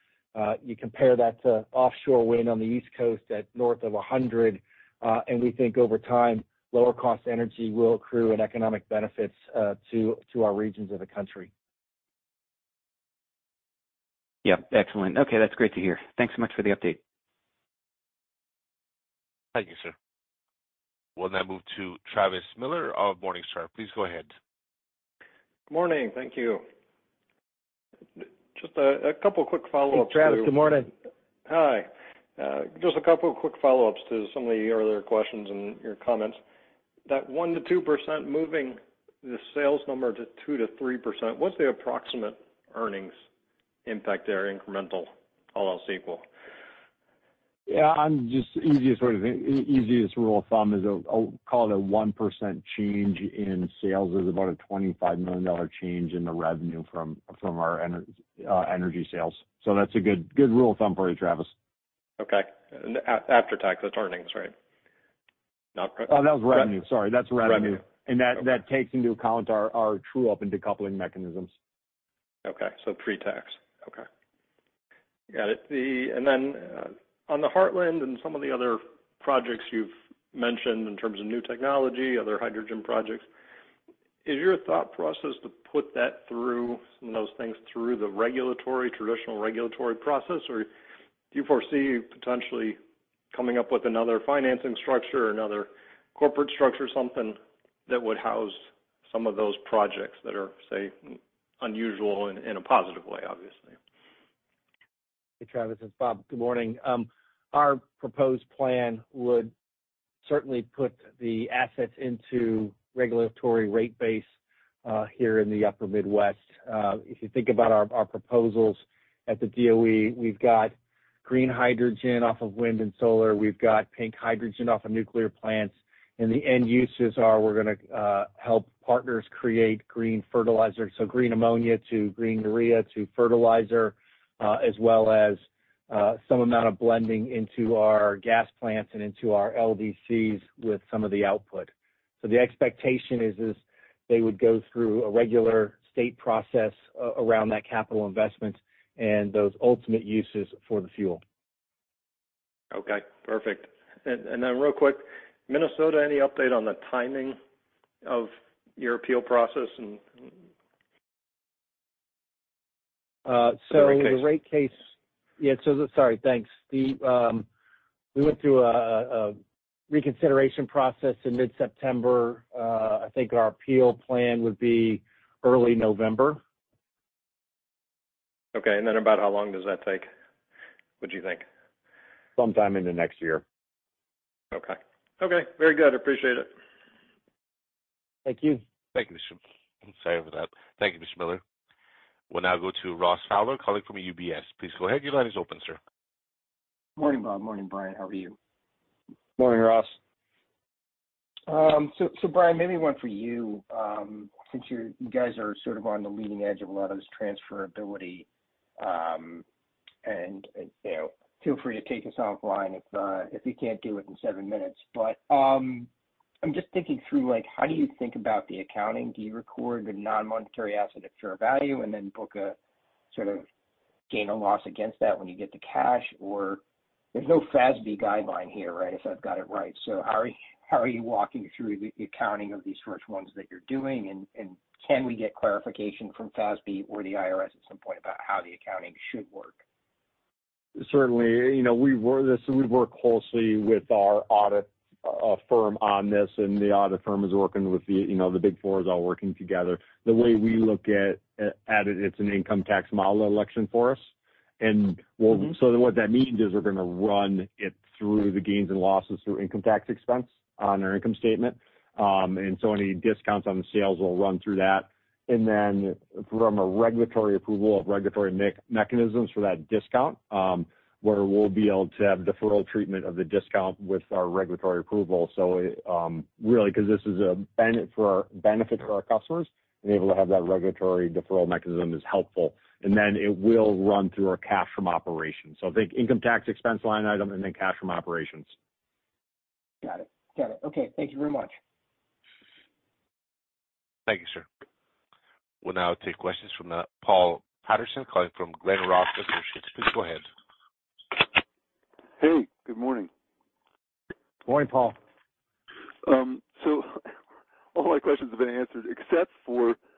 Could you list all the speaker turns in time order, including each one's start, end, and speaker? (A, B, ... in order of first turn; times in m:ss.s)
0:00.3-0:11.5 A
0:14.4-0:17.0 B
0:19.5-0:19.9 C
0:21.2-0:24.3 C
0:25.7-0:26.6 D
0:28.2-0:30.5 D
0:29.9-0:30.9 A
0:31.4-0:36.4 D
0:37.1-0:43.2 D
0:43.8-0:46.2 D
0:47.7-1:01.5 E
1:02.2-1:04.5 D
1:05.7-1:06.7 D
1:06.1-1:11.5 E
1:12.4-1:14.1 D
1:15.3-1:23.2 D
1:24.2-1:30.7 D
1:31.3-1:32.8 D
1:33.3-1:43.8 D
1:45.4-1:49.5 A
1:50.2-1:54.3 A
1:54.8-2:00.7 A
2:01.2-2:21.7 A
2:22.2-2:31.2 A
2:32.7-2:37.4 D
2:38.0-2:40.1 D
2:43.2-2:44.8 A
2:45.4-2:47.4 A
2:48.1-2:49.4 A
2:49.9-2:56.4 A
2:58.5-3:00.1 D
3:01.0-3:01.4 D
3:02.4-3:03.4 E
3:04.5-3:06.5 D
3:08.2-3:08.6 A
3:08.9-3:11.4 C
3:12.3-3:15.8 C
3:17.0-3:18.4 F
3:19.4-3:20.0 E
3:21.5-3:28.2 F
3:28.8-3:29.4 F
3:30.0-3:35.9 F
3:36.4-3:42.6 F
3:43.1-3:43.4 F
3:44.1-3:46.6 F
3:47.1-3:59.6 F
4:00.8-4:14.1 E
4:14.6-4:48.5 E
4:49.8-4:51.5 F
4:54.1-4:54.4 C
4:55.6-5:00.2 C
5:02.2-5:03.1 G
5:04.4-5:05.0 A
5:06.0-5:07.0 G
5:07.7-5:09.8 G